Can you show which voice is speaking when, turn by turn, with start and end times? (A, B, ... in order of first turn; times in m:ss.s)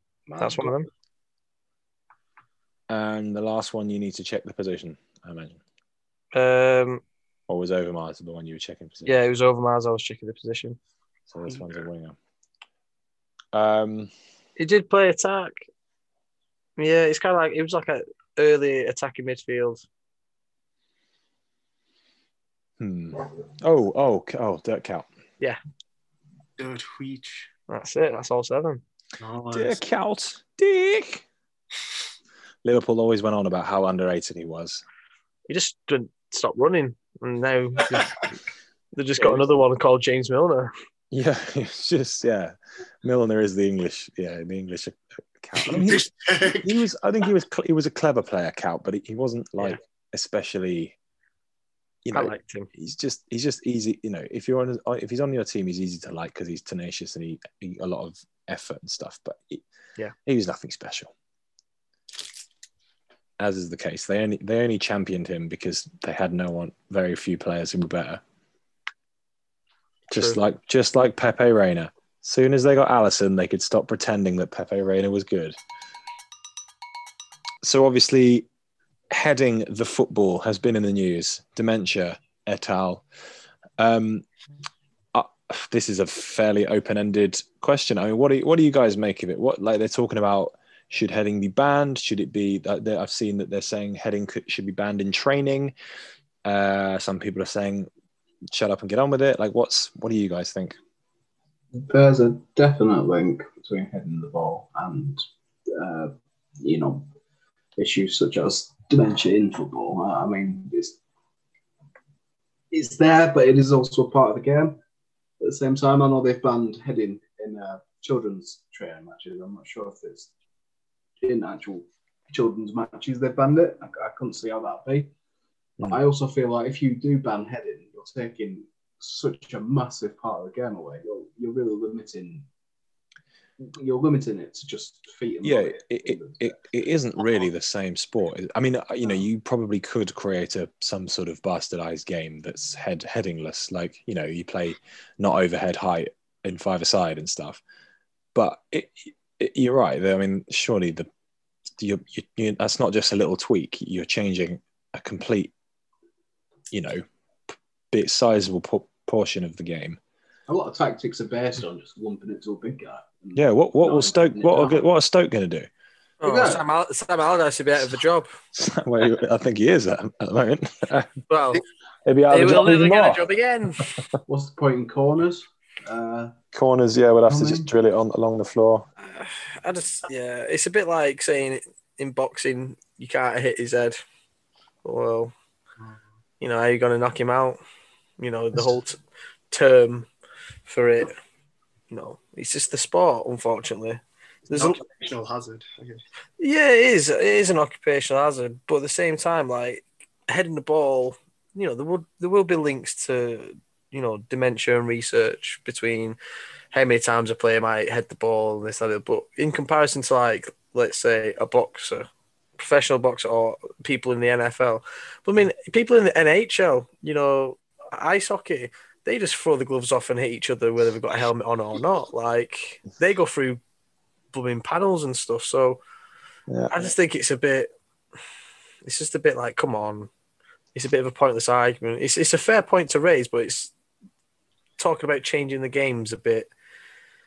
0:00.3-0:00.7 A
0:00.4-0:00.9 B
0:02.9-0:05.6 C
0:06.3-0:07.0 B
0:07.5-0:09.2 C
0:09.0-0:10.8 B
0:11.3-0:12.2 C
0:13.5-0:14.1 C
0:14.6-0:15.6 B
0:16.8-0:19.8 B
0:22.8-0:25.1 C
0:26.6-0:27.5 D
0:27.7-0:28.8 B
0:29.2-0:29.8 D
0:29.5-0:31.3 C
0:32.6-0:34.8 C
0:35.5-0:38.1 B
0:39.0-0:40.7 B
0:41.1-0:51.0 C
0:45.6-0:46.7 D
0:52.0-0:59.6 C
0:52.1-0:52.7 B
1:00.3-1:01.1 C
1:03.4-1:08.2 C
1:10.1-1:15.6 C
1:10.1-1:10.4 B
1:17.6-1:18.5 C
1:19.1-1:23.0 C
1:23.8-1:24.3 C
1:25.1-1:35.7 C
1:36.4-1:37.9 C
1:38.5-1:40.8 C
1:41.8-1:47.1 A
1:47.8-1:51.0 A
1:52.7-1:54.8 A
1:55.4-2:00.3 A
2:01.2-2:05.1 A
2:05.8-2:12.5 A
2:13.6-2:16.6 A
2:15.4-2:27.6 C
2:28.3-2:31.1 C
2:31.8-2:35.5 C
2:36.7-2:37.0 C
2:37.9-2:40.0 C
2:40.5-2:44.8 A
2:43.4-2:45.7 C
2:46.2-2:48.3 B
2:46.2-2:46.6 A
2:48.5-2:51.2 C
2:51.3-2:51.6 B
2:52.0-2:53.3 C
2:52.3-2:54.0 B
2:54.3-2:56.4 A
2:56.5-2:58.9 C
2:57.3-2:57.7 A
2:59.0-3:04.0 B
3:04.8-3:05.3 B
3:06.4-3:07.6 B
3:08.2-3:09.0 B
3:09.5-3:10.1 B
3:10.7-3:11.2 B
3:11.9-3:14.8 B
3:14.5-3:16.0 D
3:16.4-3:26.2 B
3:26.7-3:43.6 B
3:44.3-3:45.8 B
3:46.5-3:46.9 C
3:46.7-3:47.7 B
3:48.8-3:50.1 B
3:50.8-3:53.7 B
3:54.8-3:56.5 B